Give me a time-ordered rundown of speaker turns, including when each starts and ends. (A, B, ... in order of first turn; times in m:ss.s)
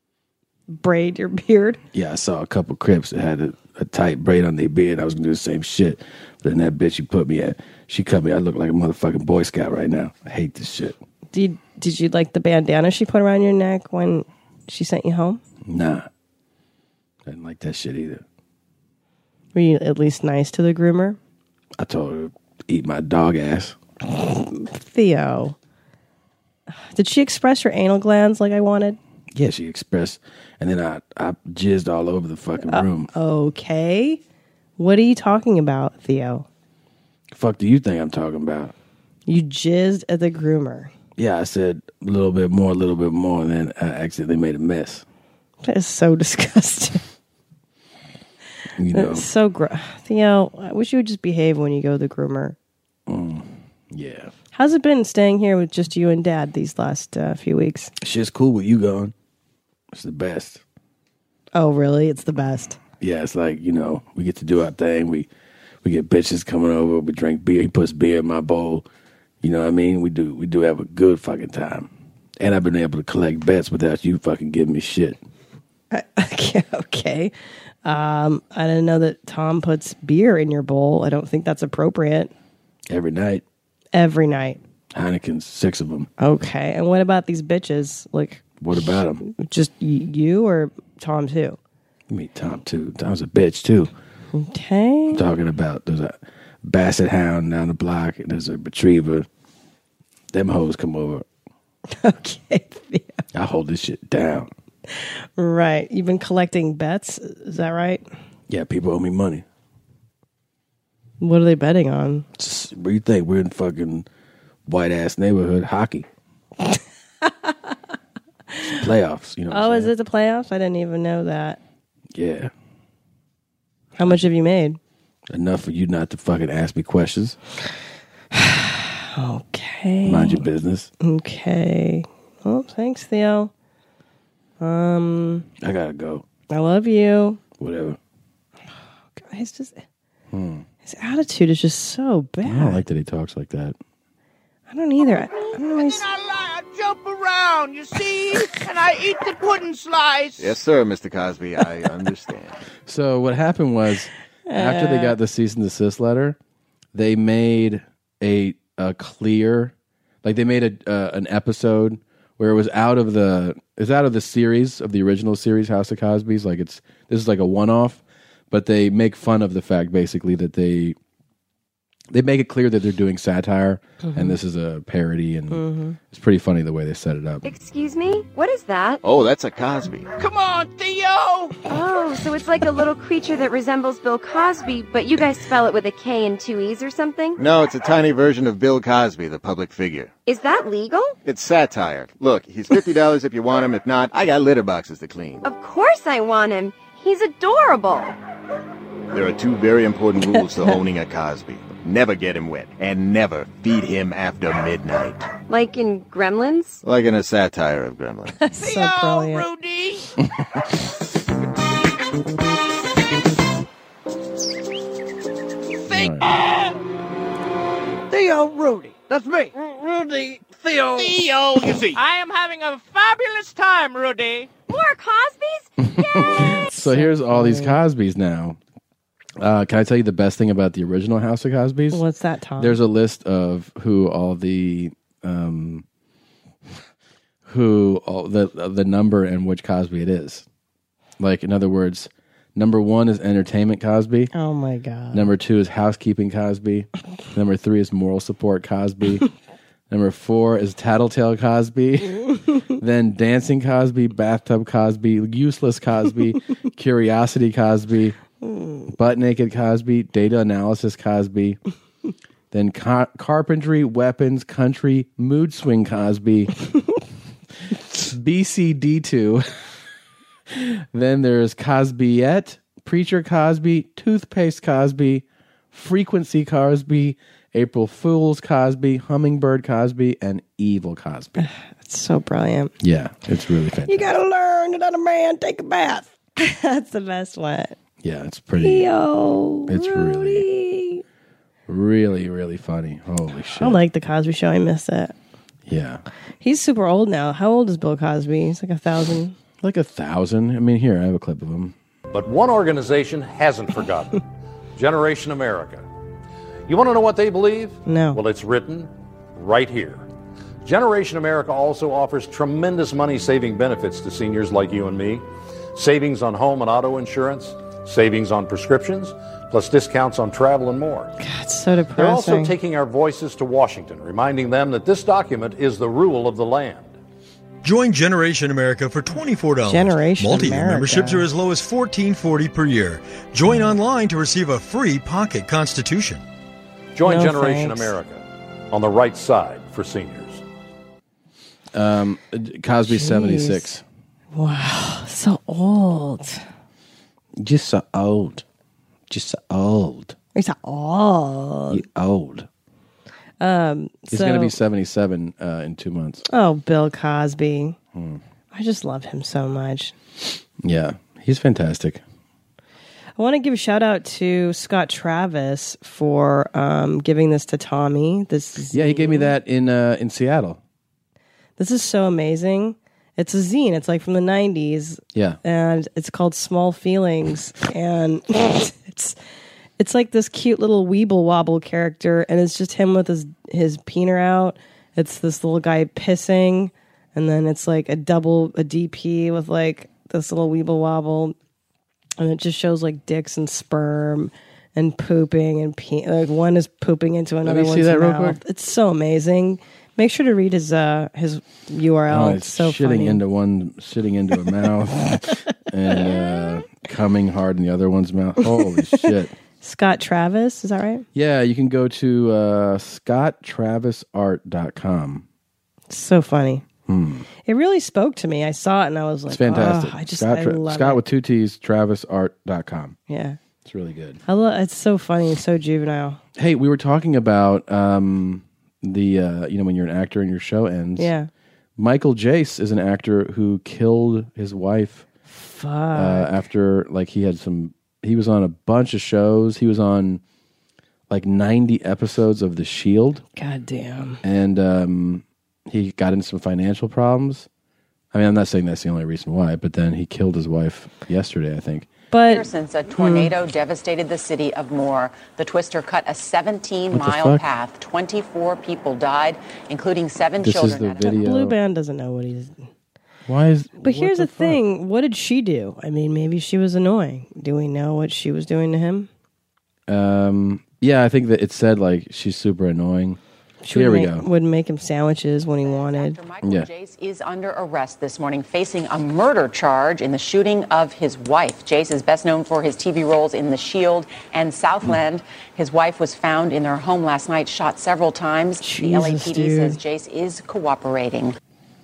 0:00.7-0:01.8 A
0:01.9-0:11.0 B
0:11.3-0:15.4 A
0:15.6-0:16.1 B
0:17.3-0:18.2 B
0:19.6-0:21.2 A
0:21.8-0:23.8 B
0:24.1-0:25.6 A
0:26.7-0:29.0 A
0:29.3-0:33.1 B
0:32.7-0:34.2 A
0:34.8-0:36.5 A
0:37.3-0:38.7 B
0:39.3-0:40.9 A
0:41.2-0:45.0 B
0:45.6-0:47.0 A
0:48.8-0:49.3 B
0:48.9-0:52.6 A
0:53.1-0:54.3 B
0:54.5-0:57.9 A
0:58.0-0:59.1 B
0:59.9-1:00.6 B
1:01.5-1:02.8 A
1:03.0-1:05.3 B
1:05.8-1:08.9 B
1:09.4-1:15.2 B
1:15.9-1:17.3 A
1:17.8-1:22.3 A
1:22.9-1:23.4 B
1:23.9-1:24.6 A
1:24.9-1:26.1 B
1:26.2-1:28.4 A
1:28.6-1:29.2 B
1:29.2-1:31.6 A
1:32.1-1:33.9 B
1:34.3-1:35.2 A
1:35.1-1:39.3 B
1:40.3-1:41.3 B
1:41.9-1:43.2 A
1:43.3-1:44.5 B
1:44.9-1:48.0 A
1:48.5-1:49.4 B
1:51.2-1:52.3 A
1:52.4-1:54.1 B
1:54.7-1:56.1 B
1:57.2-1:57.5 A
1:58.7-1:59.9 B
1:59.5-2:01.6 A
2:02.1-2:02.5 B
2:04.0-2:04.8 A
2:05.3-2:07.4 B
2:08.3-2:10.5 A
2:10.0-2:10.9 B
2:11.0-2:13.5 A
2:14.6-2:15.5 A
2:15.6-2:16.2 B
2:16.5-2:17.4 A
2:17.6-2:18.0 B
2:19.2-2:19.8 A
2:20.3-2:20.7 B
2:20.8-2:22.8 A
2:22.4-2:23.8 B
2:24.7-2:26.0 A
2:25.7-2:30.5 C
2:30.4-2:32.6 D
2:32.8-2:36.4 B
2:34.5-2:35.2 A
2:36.9-2:51.0 B
2:52.1-2:57.5 B
2:54.0-2:54.4 A
2:55.5-2:56.0 A
2:57.4-2:59.0 E
2:59.0-3:00.1 D
3:00.2-3:01.6 C
3:01.7-3:07.4 E
3:07.4-3:10.1 D
3:10.3-3:11.1 E
3:11.2-3:15.4 D
3:15.4-3:18.2 E
3:19.1-3:25.3 D
3:25.5-3:26.8 E
3:26.8-3:28.4 D
3:28.4-3:29.5 A
3:28.5-3:30.1 C
3:35.9-3:36.5 C
3:35.9-3:36.3 B
3:40.8-3:44.5 C
3:44.7-3:46.3 E
3:45.8-3:48.6 B
3:46.7-3:47.8 A
3:49.4-3:52.0 B
3:51.9-3:52.8 A
3:52.6-3:55.8 B
3:57.5-4:00.5 B
4:01.2-4:04.3 B
4:04.3-4:05.3 A
4:05.1-4:09.3 B
4:09.9-4:12.2 B
4:12.8-4:18.2 B
4:18.4-4:18.9 A
4:18.9-4:21.6 B
4:22.5-4:26.5 B
4:27.7-4:29.5 B
4:30.5-4:41.5 B
4:41.4-4:42.7 A
4:42.8-4:44.1 B
4:43.9-4:47.8 A
4:48.0-4:48.9 B
4:48.6-4:51.0 A
4:49.7-4:50.5 B
4:51.7-4:53.8 B
4:53.6-4:55.1 A
4:55.7-4:56.0 B
4:56.4-4:59.4 A
4:59.6-5:01.8 B
5:02.1-5:04.2 F
5:04.8-5:05.8 F
5:06.7-5:10.0 F
5:07.9-5:08.2 A
5:10.6-5:21.1 F
5:21.2-5:22.6 A
5:22.0-5:27.0 F
5:27.6-5:36.2 G
5:29.7-5:31.3 A
5:37.0-5:40.4 F
5:37.0-5:38.0 A
5:41.7-5:43.8 B
5:42.9-5:43.8 A
5:44.3-5:46.4 A
5:47.4-5:48.4 B
5:49.1-5:50.2 B
5:50.4-5:51.8 A
5:51.7-5:52.5 B
5:53.4-5:54.5 A
5:54.1-5:56.3 B
5:56.3-5:57.8 A
5:57.9-5:58.2 B
5:58.5-6:00.0 A
6:00.6-6:02.0 B
6:03.2-6:09.3 A
6:08.7-6:10.6 B
6:11.6-6:19.2 A
6:19.8-6:31.4 A
6:32.2-6:43.2 A
6:37.4-6:38.4 B
6:42.1-6:49.3 B
6:45.9-6:46.6 A
6:48.4-6:49.1 A
6:49.6-6:51.1 A
6:51.2-6:55.2 B
6:55.9-6:56.6 A
6:56.9-6:57.3 B
6:57.5-7:01.0 A
6:59.3-7:03.0 B
7:03.1-7:03.4 A
7:03.6-7:04.2 B
7:04.3-7:06.2 A
7:06.4-7:11.1 B
7:11.0-7:11.3 A
7:11.8-7:15.0 B
7:15.3-7:16.4 A
7:15.9-7:20.2 B
7:21.1-7:23.2 B
7:23.4-7:24.2 A
7:24.2-7:27.5 B
7:28.1-7:31.9 B
7:32.1-7:33.3 A
7:32.3-7:41.3 H
7:36.9-7:37.4 B
7:40.4-7:41.6 B
7:41.0-7:42.7 A
7:43.3-7:44.6 B
7:43.8-7:49.1 A
7:49.9-7:53.2 B
7:53.6-7:56.2 A
7:53.7-7:54.3 B
7:55.6-8:11.4 H
7:56.4-7:56.7 B
8:08.6-8:09.8 A